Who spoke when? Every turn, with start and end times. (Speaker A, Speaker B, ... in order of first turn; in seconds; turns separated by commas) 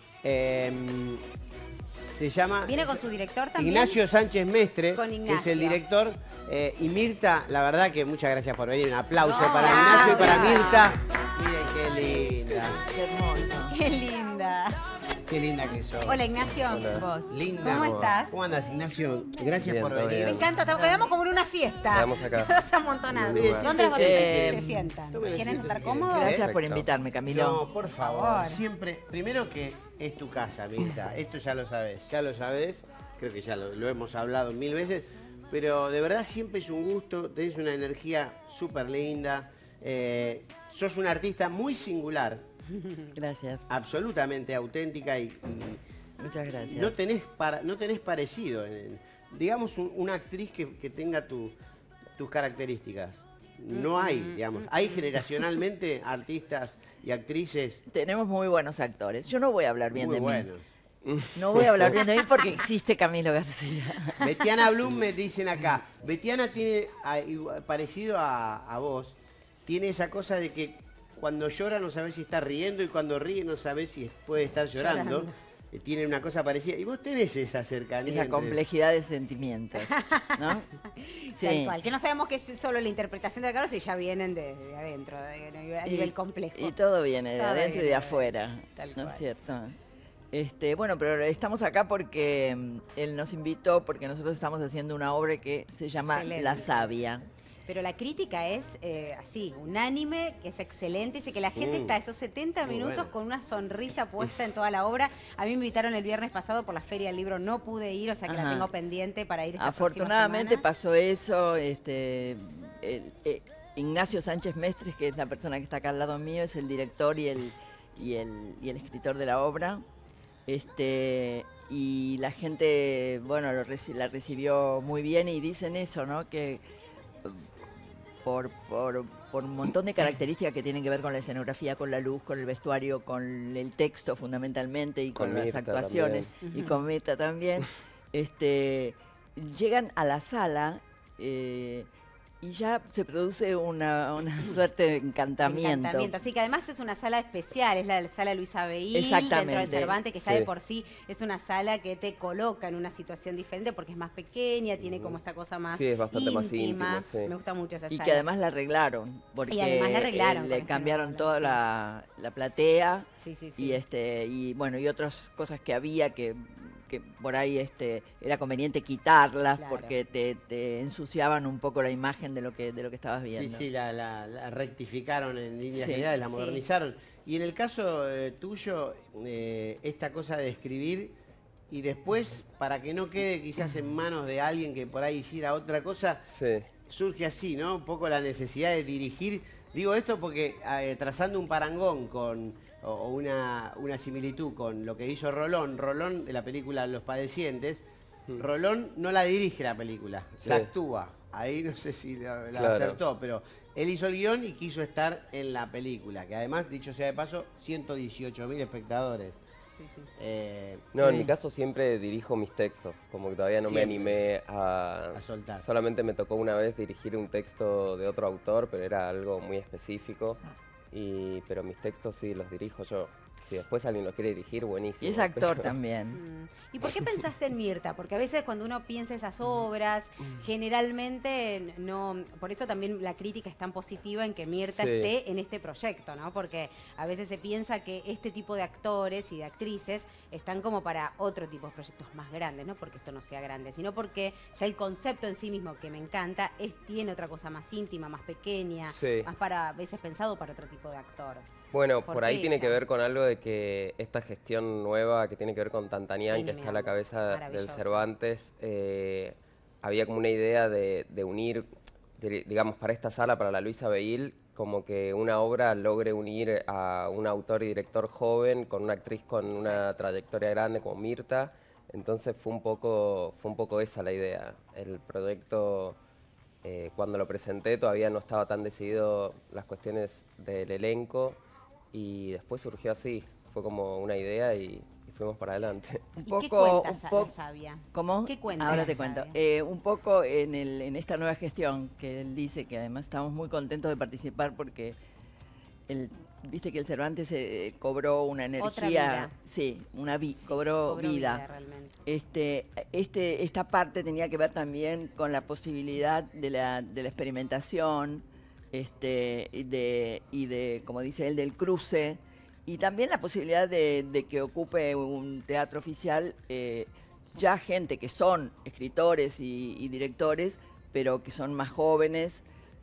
Speaker A: 0.2-1.2, Speaker A: 2.1-3.0, Speaker B: 2.7-4.0, Speaker A: 3.6-12.8, Speaker B: 5.0-5.8, Speaker B: 9.2-11.0, Speaker C: 9.7-10.6, Speaker C: 12.8-13.8, Speaker B: 13.7-14.8, Speaker A: 15.3-16.5, Speaker B: 16.1-18.4, Speaker D: 16.7-17.1, Speaker C: 16.9-17.4, Speaker A: 17.3-20.5, Speaker D: 17.7-18.1, Speaker D: 19.6-20.5, Speaker B: 20.2-26.4, Speaker C: 20.6-21.2, Speaker D: 21.9-22.5, Speaker D: 23.1-23.8, Speaker A: 23.1-26.4, Speaker C: 23.9-24.7, Speaker C: 26.1-27.6, Speaker D: 26.2-26.9, Speaker A: 27.3-42.4, Speaker B: 28.0-28.6, Speaker C: 43.1-43.7, Speaker A: 43.7-45.8, Speaker C: 46.2-47.0, Speaker A: 46.5-51.5, Speaker A: 52.2-57.8, Speaker B: 53.7-54.7, Speaker C: 57.9-60.5, Speaker A: 59.9-60.6, Speaker D: 61.0-61.9, Speaker C: 61.4-64.2, Speaker A: 64.2-78.6, Speaker B: 74.7-75.3, Speaker C: 78.1-80.7, Speaker B: 79.8-86.8, Speaker C: 81.4-81.8, Speaker C: 85.8-89.8, Speaker B: 87.4-89.2, Speaker C: 90.3-97.3, Speaker B: 96.1-96.9, Speaker B: 97.7-110.6, Speaker A: 101.5-102.0, Speaker A: 102.7-103.1, Speaker C: 108.3-108.7, Speaker C: 109.6-119.8, Speaker C: 120.5-126.6, Speaker C: 127.2-127.7, Speaker C: 128.2-141.9, Speaker D: 135.2-136.3, Speaker B: 136.4-136.7, Speaker C: 142.4-146.1, Speaker B: 145.4-158.3, Speaker C: 148.9-150.0, Speaker D: 150.2-150.5, Speaker D: 154.8-155.2, Speaker D: 155.7-157.3, Speaker C: 157.9-173.6, Speaker B: 159.5-161.6, Speaker B: 163.2-163.8, Speaker B: 169.6-170.0, Speaker A: 173.3-181.2, Speaker C: 175.8-176.1, Speaker B: 176.2-176.6, Speaker A: 181.7-186.2, Speaker D: 186.3-186.7, Speaker A: 186.9-197.8, Speaker A: 198.4-209.4, Speaker D: 200.4-200.7, Speaker D: 202.5-203.0, Speaker B: 209.8-210.1, Speaker A: 210.2-210.9, Speaker D: 210.9-220.4, Speaker A: 213.6-214.2, Speaker A: 215.1-215.6, Speaker D: 220.9-225.7, Speaker C: 225.0-226.2, Speaker B: 226.1-251.5, Speaker D: 234.7-235.1, Speaker D: 248.9-249.3, Speaker D: 251.7-276.0, Speaker B: 252.1-252.8, Speaker B: 256.3-258.1, Speaker D: 276.6-281.4, Speaker D: 281.9-286.1, Speaker C: 286.2-287.3, Speaker B: 286.3-289.3, Speaker C: 287.9-295.0, Speaker C: 295.9-301.4, Speaker B: 298.6-299.3, Speaker B: 300.5-301.9, Speaker C: 302.1-322.4